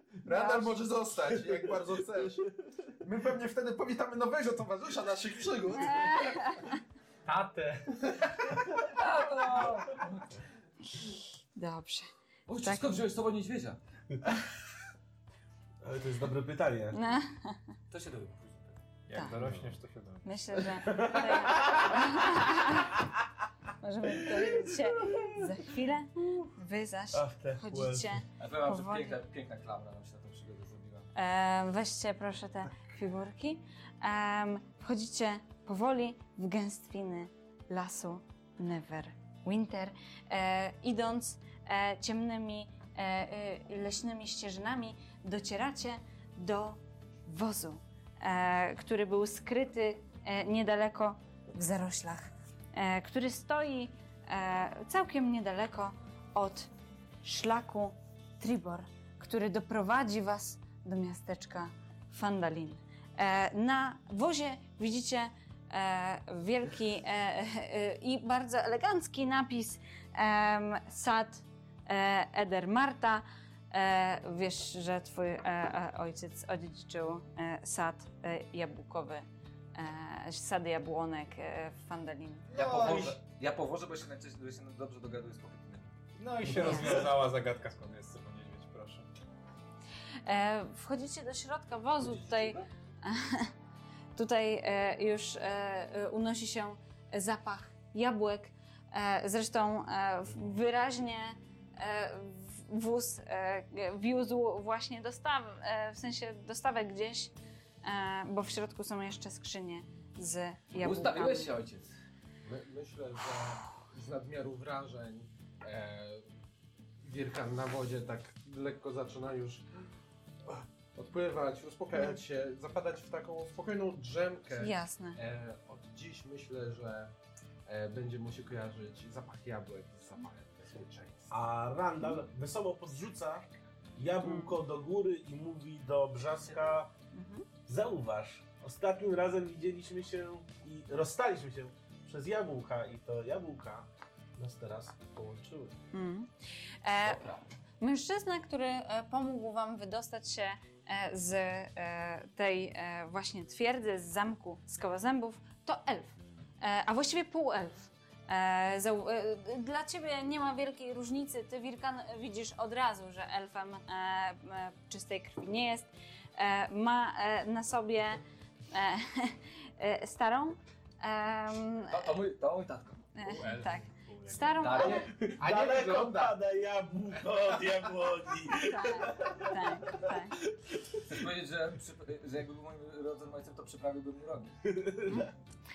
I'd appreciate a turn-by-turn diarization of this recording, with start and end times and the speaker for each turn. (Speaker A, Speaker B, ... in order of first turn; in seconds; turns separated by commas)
Speaker A: 0.2-2.5, Speaker B: 0.3-0.7, Speaker A: 3.0-6.6, Speaker B: 5.8-6.8, Speaker C: 7.2-8.2, Speaker A: 8.1-8.8, Speaker D: 8.9-10.3, Speaker B: 11.0-12.1, Speaker D: 12.5-13.8, Speaker B: 12.6-13.0, Speaker E: 15.8-17.0, Speaker B: 16.9-17.6, Speaker D: 17.9-18.8, Speaker C: 19.1-20.2, Speaker B: 20.2-22.9, Speaker E: 20.9-22.0, Speaker B: 23.8-29.1, Speaker E: 24.2-25.6, Speaker E: 27.1-28.2, Speaker D: 28.4-31.1, Speaker B: 31.1-56.7, Speaker B: 57.2-82.5, Speaker D: 82.5-85.9, Speaker C: 82.5-83.1, Speaker C: 86.2-89.1, Speaker E: 86.5-87.0, Speaker B: 86.6-87.0, Speaker B: 90.2-93.5, Speaker B: 94.2-107.3, Speaker B: 107.8-111.5, Speaker D: 110.8-111.9, Speaker A: 112.4-116.3, Speaker A: 117.0-119.7, Speaker A: 120.4-127.1, Speaker B: 124.6-125.2, Speaker A: 127.7-131.5, Speaker E: 131.3-136.9, Speaker B: 134.2-134.5, Speaker B: 137.1-137.4, Speaker E: 137.7-145.8, Speaker B: 145.9-146.3, Speaker B: 146.8-168.2, Speaker D: 147.0-147.4, Speaker B: 168.7-172.1, Speaker D: 171.9-173.1, Speaker B: 173.1-175.1, Speaker C: 173.2-174.9, Speaker D: 174.6-175.1, Speaker A: 174.7-176.4, Speaker E: 175.2-180.1, Speaker B: 178.5-180.4, Speaker D: 181.1-184.6, Speaker E: 184.7-185.3